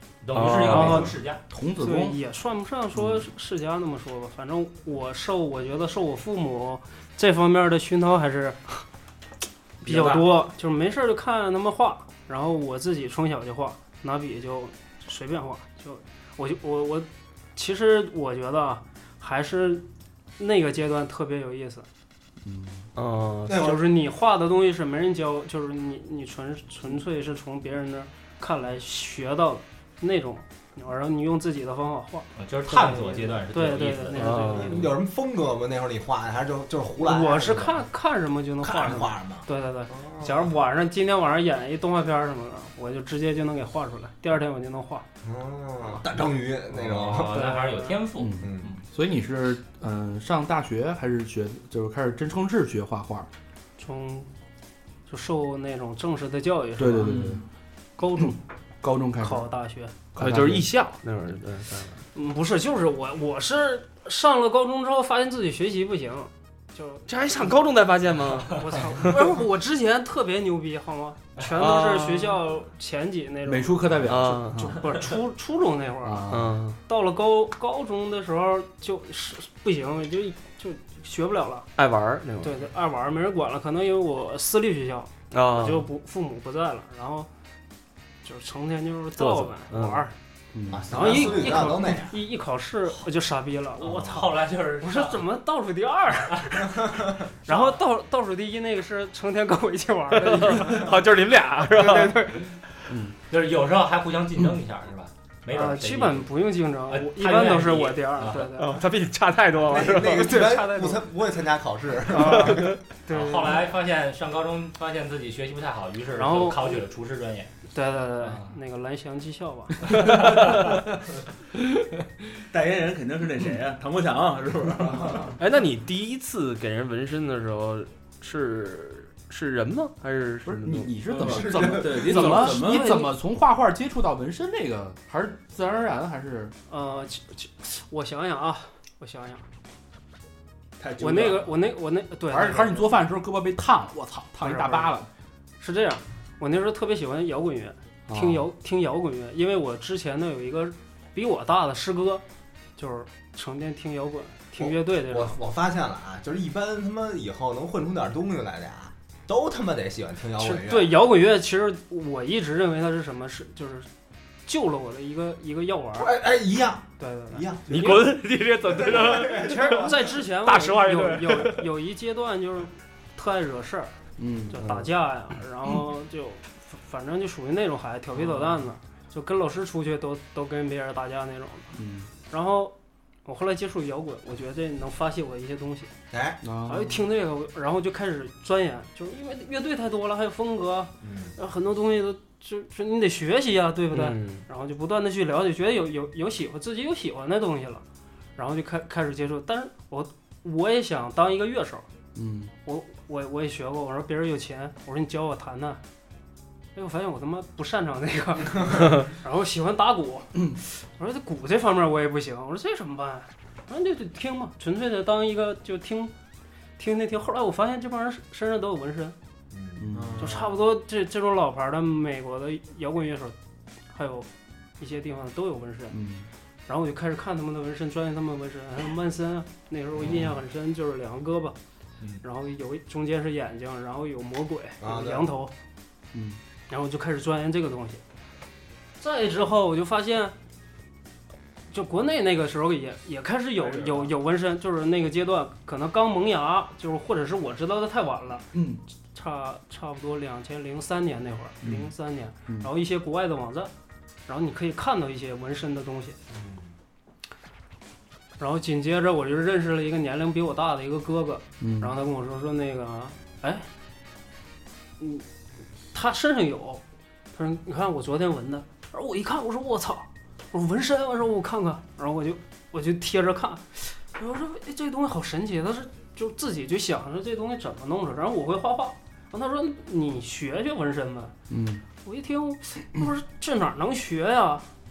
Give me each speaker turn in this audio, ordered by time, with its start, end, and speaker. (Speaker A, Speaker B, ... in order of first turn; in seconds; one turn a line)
Speaker A: 0.2-1.4
Speaker B: 0.3-1.1
Speaker C: 0.6-1.1
Speaker D: 1.5-2.2
Speaker C: 1.8-8.6
Speaker D: 3.0-3.2
Speaker B: 9.8-10.3
Speaker C: 9.8-19.9
Speaker C: 20.4-21.9
Speaker D: 22.4-22.9
Speaker B: 22.9-23.7
Speaker E: 23.5-23.8
Speaker C: 23.5-34.9
Speaker A: 32.4-34.4
Speaker B: 34.1-34.8
Speaker E: 34.4-37.8
Speaker C: 37.0-45.0
Speaker E: 38.6-40.5
Speaker E: 45.2-47.4
Speaker A: 46.8-48.7
Speaker C: 47.3-48.0
Speaker D: 48.1-53.3
Speaker E: 48.4-48.7
Speaker C: 53.8-54.3
Speaker C: 55.1-57.2
Speaker D: 56.8-57.4
Speaker C: 58.0-58.4
Speaker D: 58.2-59.4
Speaker C: 59.2-59.9
Speaker D: 60.1-60.7
Speaker B: 60.2-62.0
Speaker C: 62.1-67.1
Speaker B: 67.1-69.1
Speaker C: 68.5-76.2
Speaker B: 71.5-72.4
Speaker D: 73.5-74.8
Speaker B: 74.1-74.7
Speaker D: 76.0-76.6
Speaker B: 76.3-76.8
Speaker C: 76.9-81.7
Speaker B: 81.8-82.5
Speaker C: 82.4-87.3
Speaker B: 85.3-85.8
Speaker C: 88.2-90.1
Speaker B: 89.2-90.0
Speaker D: 90.5-91.1
Speaker E: 90.7-92.2
Speaker C: 90.9-96.8
Speaker A: 93.8-95.2
Speaker E: 96.7-97.3
Speaker C: 97.5-100.9
Speaker B: 100.1-102.2
Speaker C: 101.7-102.6
Speaker A: 103.3-106.3
Speaker C: 105.5-108.8
Speaker A: 106.9-108.6
Speaker B: 108.6-110.4
Speaker E: 109.6-112.8
Speaker C: 110.0-111.0
Speaker C: 112.1-113.6
Speaker A: 113.1-117.5
Speaker C: 116.1-116.8
Speaker C: 117.7-120.2
Speaker A: 118.2-118.5
Speaker B: 120.0-120.5
Speaker A: 120.1-120.8
Speaker F: 122.5-125.3
Speaker B: 125.4-130.9
Speaker D: 130.4-136.5
Speaker F: 131.1-132.9
Speaker E: 131.2-131.8
Speaker C: 132.3-133.1
Speaker C: 136.7-139.4
Speaker F: 140.8-141.6
Speaker C: 141.0-143.0
Speaker D: 142.3-145.1
Speaker C: 144.4-144.9
Speaker C: 145.6-152.2
Speaker D: 148.1-148.4
Speaker C: 152.8-155.4
Speaker E: 154.6-161.0
Speaker C: 160.4-163.9
Speaker C: 164.4-166.1
Speaker E: 165.9-167.9
Speaker C: 167.0-168.2
Speaker B: 167.7-171.6
Speaker E: 168.8-169.9
Speaker C: 169.3-173.9
Speaker D: 174.2-174.9
Speaker C: 174.5-181.8
Speaker D: 181.8-182.1
Speaker C: 182.3-182.7
Speaker C: 183.2-185.9
Speaker E: 186.1-186.4
Speaker D: 186.4-187.0
Speaker C: 186.6-197.8
Speaker E: 191.0-191.3
Speaker B: 193.9-194.4
Speaker C: 198.3-201.9
Speaker D: 202.2-202.5
Speaker C: 202.6-205.8
Speaker C: 206.7-216.1
Speaker C: 216.8-219.2
Speaker E: 219.5-220.0
Speaker D: 219.8-220.2
Speaker F: 219.9-220.5
Speaker C: 220.2-223.3
Speaker C: 223.9-224.3
Speaker C: 224.8-226.0
Speaker D: 225.9-226.3
Speaker C: 226.7-231.6
Speaker C: 232.2-235.5
Speaker E: 234.8-235.3
Speaker D: 236.1-236.4
Speaker C: 236.7-238.0
Speaker C: 239.0-240.3
Speaker C: 241.7-248.5
Speaker B: 243.7-244.1
Speaker D: 248.5-248.8
Speaker C: 249.1-253.7
Speaker D: 251.6-251.9
Speaker C: 254.3-256.2
Speaker E: 256.3-256.7
Speaker C: 258.4-263.7
Speaker D: 261.6-261.9
Speaker C: 265.0-265.2
Speaker C: 265.9-266.8
Speaker C: 267.3-281.3
Speaker D: 281.5-281.8
Speaker C: 282.0-284.7